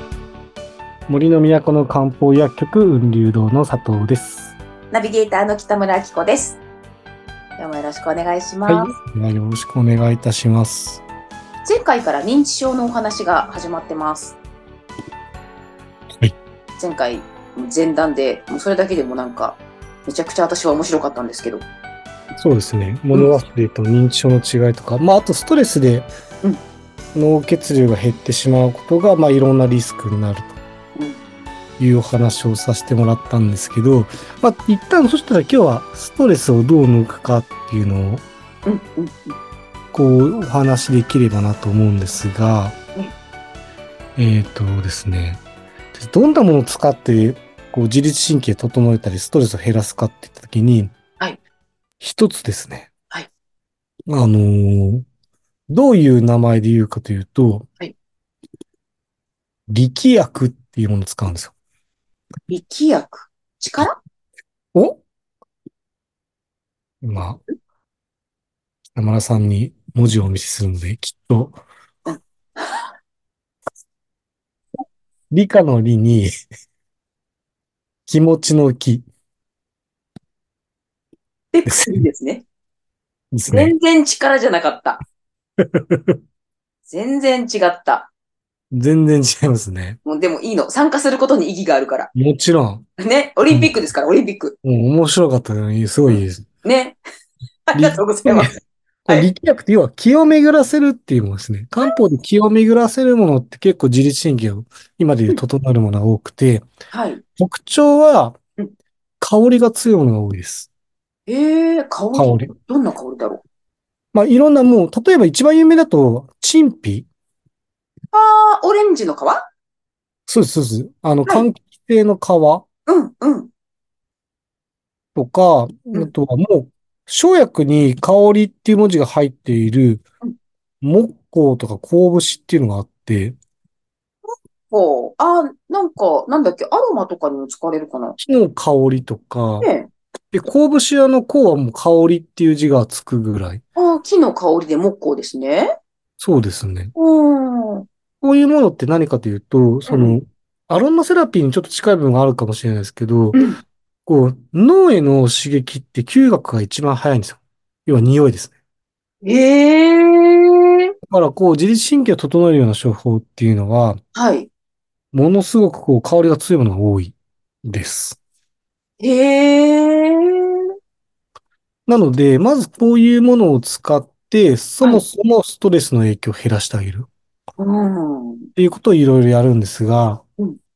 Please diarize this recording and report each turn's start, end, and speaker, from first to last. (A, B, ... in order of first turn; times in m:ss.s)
0:01.1-0:04.6 A
0:04.9-0:06.6 B
0:07.6-0:08.9 B
0:08.7-0:11.0 A
0:11.6-0:14.4 B
0:16.8-0:21.6 B
0:22.4-0:26.1 A
0:27.1-0:30.6 A
0:31.8-0:38.2 A
0:38.6-0:39.4 B
0:39.9-0:42.8 A
0:44.2-0:45.4 A
0:45.9-0:50.9 A
0:52.0-0:52.9 A
0:54.1-0:55.0 A
0:55.7-0:57.7 A
0:59.7-1:01.5 A
1:02.5-1:04.0 B
1:04.7-1:05.0 A
1:07.0-1:07.4 A
1:08.9-1:11.6 A
1:12.0-1:12.9 B
1:15.3-1:16.3 A
1:18.1-1:19.0 A
1:21.5-1:22.4 B
1:21.6-1:22.0 A
1:23.3-1:23.7 A
1:23.5-1:25.0 B
1:25.6-1:26.2 A
1:26.9-1:28.1 B
1:28.7-1:30.0 A
1:30.0-1:32.1 B
1:32.1-1:32.8 A
1:33.0-1:34.6 B
1:33.5-1:33.7 A
1:34.6-1:36.4 A
1:36.6-1:37.0 B
1:37.7-1:38.5 B
1:37.7-1:46.7 A
1:46.9-1:47.2 B
1:47.4-1:48.4 A
1:49.2-1:50.7 A
1:51.3-1:53.4 B
1:52.1-1:52.5 A
1:54.1-1:57.1 A
1:58.1-1:59.5 B
2:00.3-2:02.6 A
2:02.9-2:03.5 B
2:05.1-2:10.0 A
2:10.8-2:13.4 A
2:14.7-2:18.2 B
2:18.2-2:19.7 A
2:19.6-2:19.9 B
2:20.3-2:23.6 A
2:23.8-2:25.7 B
2:26.2-2:26.9 A
2:26.9-2:27.8 B
2:28.2-2:33.4 A
2:29.9-2:30.2 B
2:33.3-2:33.6 B
2:34.0-2:38.6 A
2:39.2-2:40.9 B
2:41.1-2:44.0 A
2:44.1-2:44.5 B
2:45.1-2:48.2 A
2:49.0-2:50.6 B
2:51.9-2:57.1 A
2:57.6-2:58.5 B
2:58.6-3:00.2 A